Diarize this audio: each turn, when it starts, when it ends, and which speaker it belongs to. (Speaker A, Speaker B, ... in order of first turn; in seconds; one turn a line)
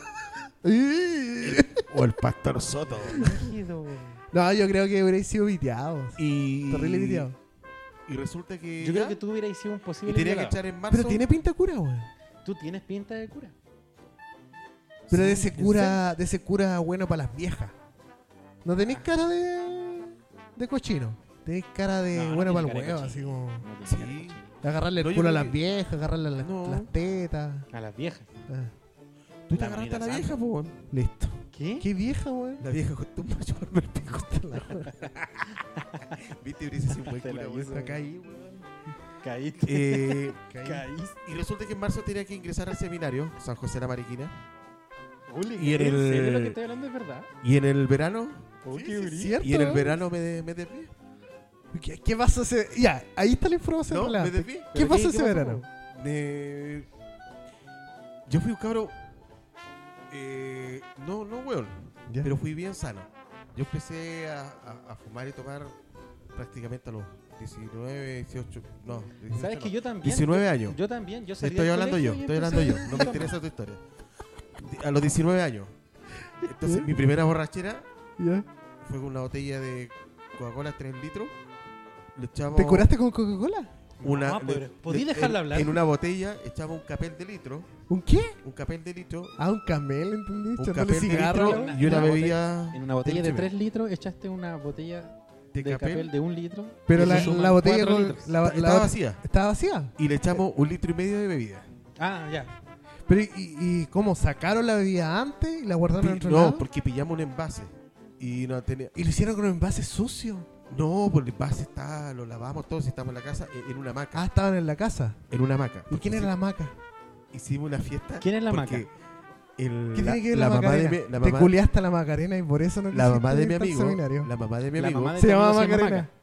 Speaker A: 0.6-1.8
Speaker B: 1.4-3.5
Speaker C: 2.9-4.2
Speaker A: 4.3-7.3
Speaker B: 6.2-7.3
Speaker B: 8.1-9.2
Speaker C: 8.8-10.6
Speaker B: 10.0-11.2
Speaker A: 10.9-12.1
Speaker C: 12.4-13.5
Speaker A: 15.1-17.7
Speaker B: 15.1-15.6
Speaker C: 15.1-16.0
Speaker A: 18.6-23.7
Speaker C: 22.1-24.6
Speaker B: 23.8-24.4
Speaker A: 24.6-27.7
Speaker B: 25.0-25.6
Speaker B: 26.4-26.9
Speaker C: 27.7-28.3
Speaker A: 28.5-28.7
Speaker B: 29.5-30.8
Speaker C: 29.5-30.4
Speaker A: 30.9-32.6
Speaker C: 31.5-31.9
Speaker B: 32.6-35.4
Speaker A: 34.2-34.9
Speaker C: 35.0-36.2
Speaker B: 36.1-38.6
Speaker C: 37.0-38.0
Speaker C: 39.2-41.2
Speaker B: 39.6-40.4
Speaker A: 40.5-40.9
Speaker B: 41.2-44.3
Speaker C: 45.3-47.3
Speaker B: 45.5-46.5
Speaker B: 47.4-48.6
Speaker C: 48.6-49.4
Speaker A: 48.7-50.0
Speaker B: 49.4-50.9
Speaker A: 51.7-55.6
Speaker B: 53.9-54.7
Speaker C: 54.7-55.6
Speaker B: 55.9-56.9
Speaker B: 58.3-59.0
Speaker B: 60.1-65.7
Speaker A: 62.1-62.3
Speaker B: 66.3-70.8
Speaker C: 69.2-73.3
Speaker B: 71.4-73.8
Speaker B: 74.6-75.7
Speaker B: 76.4-77.9
Speaker A: 76.4-76.9
Speaker A: 78.2-78.5
Speaker B: 78.8-81.3
Speaker B: 82.1-82.9
Speaker A: 82.5-83.7
Speaker C: 84.0-85.8
Speaker B: 84.0-87.7
Speaker A: 87.9-88.4
Speaker B: 88.4-89.3
Speaker A: 89.4-92.2
Speaker B: 90.6-93.5
Speaker C: 91.1-98.4
Speaker B: 95.5-96.1
Speaker A: 96.9-99.9
Speaker B: 96.9-97.3
Speaker B: 98.4-99.2
Speaker B: 100.0-101.7
Speaker C: 102.0-102.5
Speaker A: 103.1-106.6
Speaker B: 106.0-108.9
Speaker A: 108.9-110.5
Speaker B: 110.7-114.2
Speaker A: 114.1-115.2
Speaker B: 115.3-116.3
Speaker A: 115.9-116.7
Speaker B: 117.3-118.9
Speaker C: 118.2-118.8
Speaker B: 119.6-121.5
Speaker A: 119.9-124.3
Speaker B: 122.9-125.2
Speaker C: 124.8-126.1
Speaker A: 125.2-126.1